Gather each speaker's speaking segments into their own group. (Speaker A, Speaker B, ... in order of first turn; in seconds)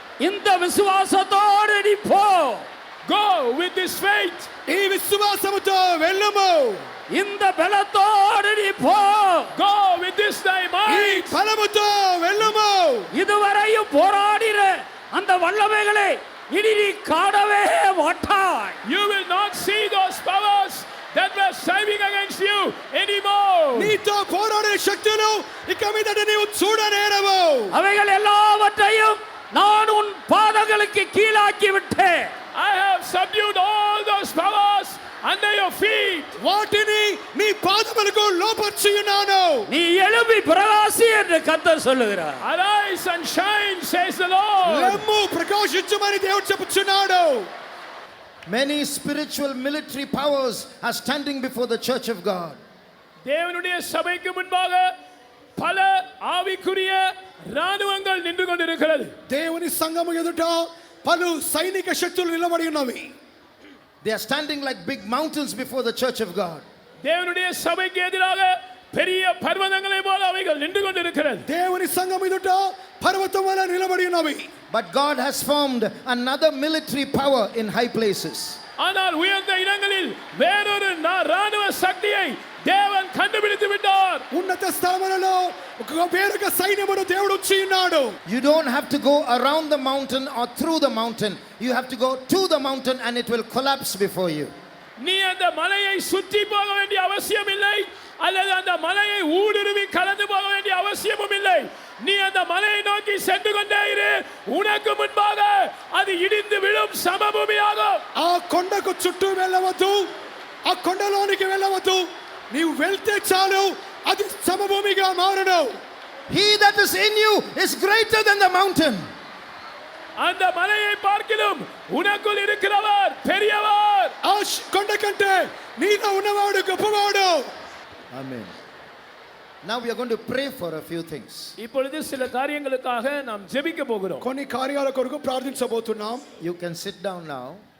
Speaker A: 0.2-2.7, 7.1-9.5, 13.1-18.8, 27.7-32.3, 39.7-42.4
Speaker B: 3.0-4.5, 9.5-11.4, 18.8-23.9, 32.5-36.3, 42.4-45.0, 53.2-54.9, 55.6-59.1, 67.0-71.5, 78.8-84.2, 95.0-108.0, 120.2-124.1, 131.6-134.2
Speaker C: 4.7-6.8, 10.9-13.1, 23.7-27.8, 36.4-39.7, 44.6-47.5, 59.3-63.1, 71.5-74.5, 84.3-88.2, 108.2-110.0, 110.6-115.8, 124.2-127.5, 134.2-136.2
Speaker D: 48.5-52.6, 64.0-66.6, 74.7-78.6, 88.2-94.5, 116.3-119.0, 128.1-128.5, 129.6-131.6, 136.4-137.6